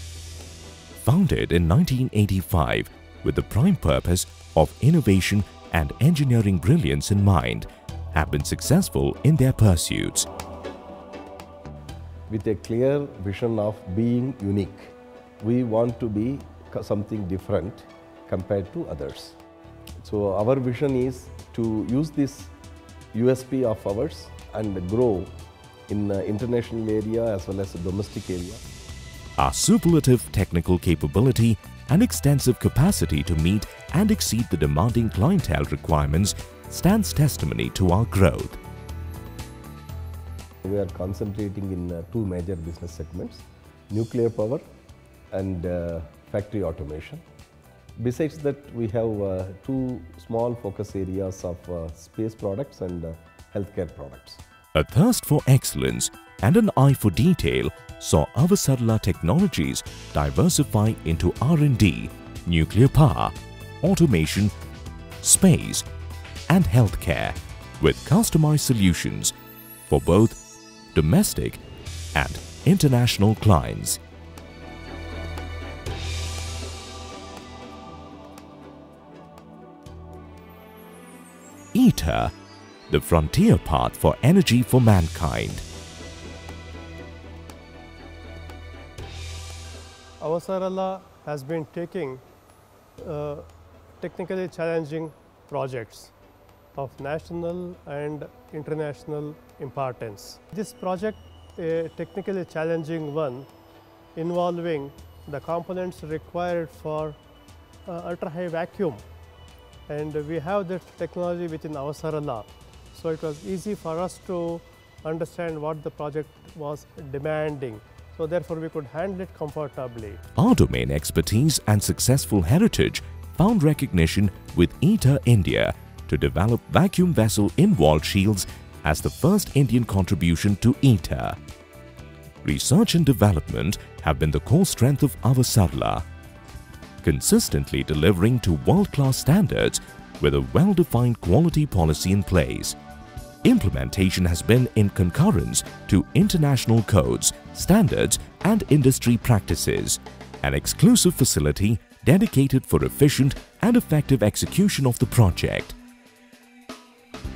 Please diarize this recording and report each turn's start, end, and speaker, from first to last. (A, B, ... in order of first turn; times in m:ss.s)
0:01.0-0:10.3 A
0:12.3-0:19.4 B
0:20.0-0:22.5 B
0:23.1-0:25.3 B
0:25.9-0:28.6 B
0:29.4-0:38.6 A
0:40.6-0:44.6 B
0:45.3-0:47.2 B
0:48.0-0:54.4 B
0:54.7-1:04.5 A
1:05.2-1:05.8 A
1:06.5-1:09.3 A
1:09.8-1:10.4 A
1:10.9-1:11.6 A
1:12.1-1:14.0 A
1:21.7-1:22.3 A
1:22.9-1:25.6 A
1:30.2-1:32.2 C
1:33.0-1:33.4 C
1:34.0-1:36.1 C
1:36.8-1:43.5 C
1:44.2-1:47.2 C
1:47.9-1:49.0 C
1:49.9-2:00.2 C
2:00.4-2:11.4 A
2:12.4-2:16.0 A
2:17.0-2:22.8 A
2:23.4-2:35.7 A